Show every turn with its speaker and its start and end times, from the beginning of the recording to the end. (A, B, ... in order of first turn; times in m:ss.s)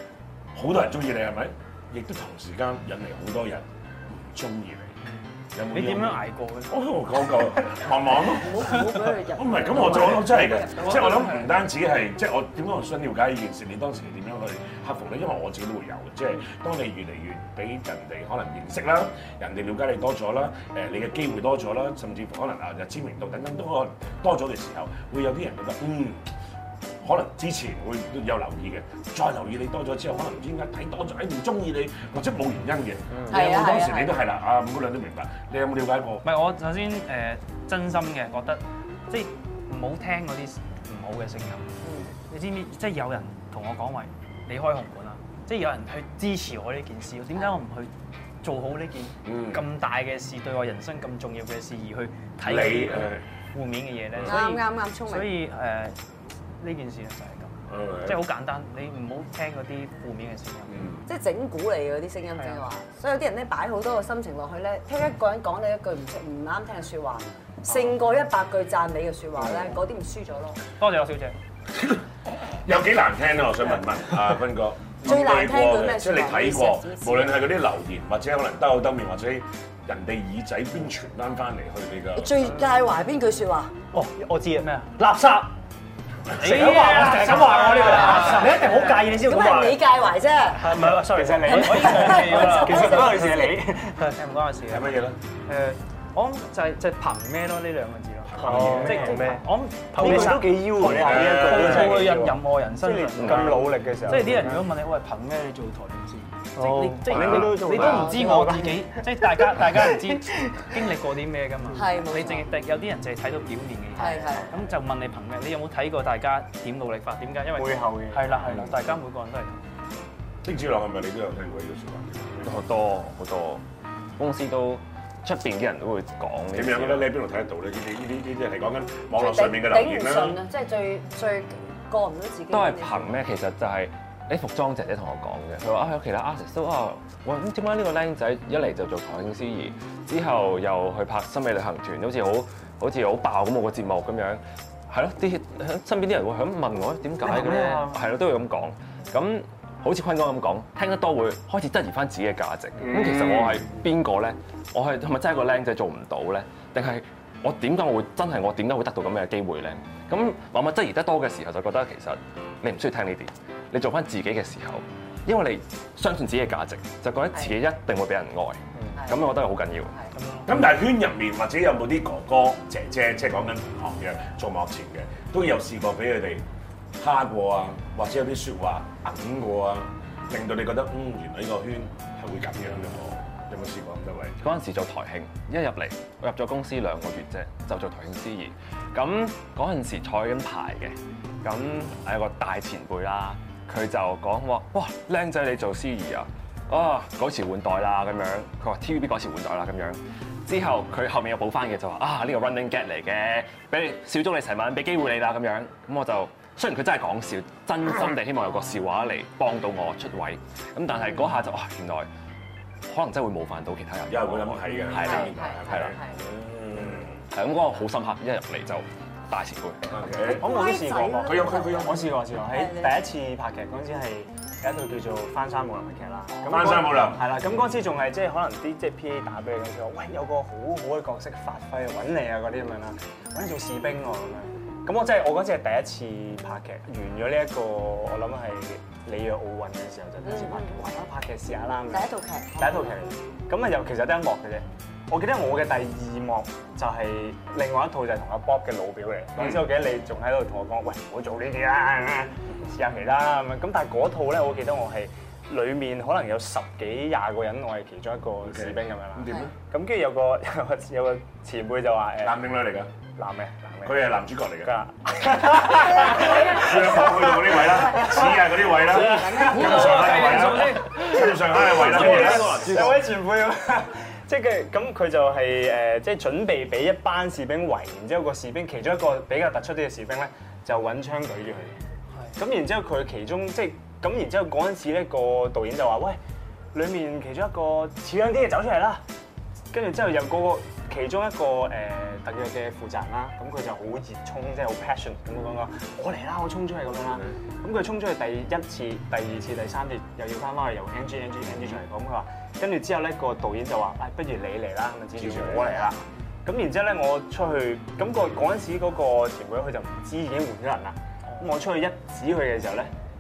0:00.6-0:05.0 A
0:05.0-0:06.7 B
0:05.6-0:08.8 A
0:08.3-0:11.0 C
0:09.4-0:26.3 A
0:10.7-0:11.6 B
0:27.0-0:36.2 A
0:33.3-0:34.2 C
0:36.2-0:47.9 B
0:41.8-0:42.1 C
0:48.4-0:56.0 B
0:49.2-0:49.6 A
0:52.4-0:53.2 A
0:54.2-0:55.3 C
0:56.6-1:00.8 B
0:57.7-0:58.2 A
1:00.7-1:01.0 A
1:01.1-1:10.6 C
1:02.4-1:02.6 B
1:10.8-1:11.4 B
1:11.8-1:12.0 A
1:12.6-1:22.4 A
1:15.0-1:17.4 C
1:22.2-1:23.7 C
1:23.9-1:25.5 D
1:24.6-1:24.9 B
1:26.4-1:29.0 B
1:26.4-1:29.8 D
1:27.4-1:28.6 C
1:29.2-1:30.8 C
1:30.6-1:32.1 D
1:31.1-1:34.1 E
1:31.4-1:33.2 C
1:31.6-1:33.2 B
1:34.0-1:59.6 B
1:34.7-1:35.2 A
1:38.3-1:38.8 A
1:38.4-1:39.4 E
1:38.4-1:40.6 D
1:39.9-1:44.6 E
1:40.8-1:42.1 A
1:43.2-1:43.5 F
1:46.6-1:47.6 D
1:47.1-1:49.0 E
1:49.7-1:50.6 E
1:51.7-1:52.5 C
1:54.0-1:54.5 C
1:54.1-1:54.7 E
1:57.6-1:58.7 E
1:58.5-1:59.0 A
2:00.4-2:02.6 A
2:02.4-2:03.6 F
2:04.2-2:07.1 F
2:06.5-2:10.4 A
2:09.1-2:13.2 C
2:12.5-2:50.0 F
2:32.8-2:33.7 A
2:49.0-2:49.3 C
2:50.1-2:50.6 B
2:50.5-2:56.4 A
2:57.0-3:04.4 A
3:04.4-3:32.1 F
3:30.9-3:31.2 C
3:32.9-3:36.0 F
3:34.1-3:37.2 A
3:34.9-3:36.2 C
3:37.3-3:39.8 F
3:39.9-3:40.5 A
3:40.2-3:43.0 C
3:40.3-4:22.4 E
3:41.2-3:42.1 A
3:46.5-3:47.3 A
4:00.2-4:01.0 C
4:01.9-4:02.9 C
4:09.4-4:09.6 A
4:18.4-4:19.5 A
4:22.2-4:22.9 A
4:23.2-4:28.3 E
4:23.8-4:24.7 A
4:25.4-4:32.9 A
4:25.7-4:30.4 C
4:28.9-4:30.0 E
4:29.3-4:32.8 B
4:31.6-4:41.8 E
4:31.7-4:33.0 F
4:42.4-4:46.2 E
4:46.7-4:49.0 E
4:49.7-5:12.9 E
5:01.5-5:01.8 A
5:05.2-5:05.8 A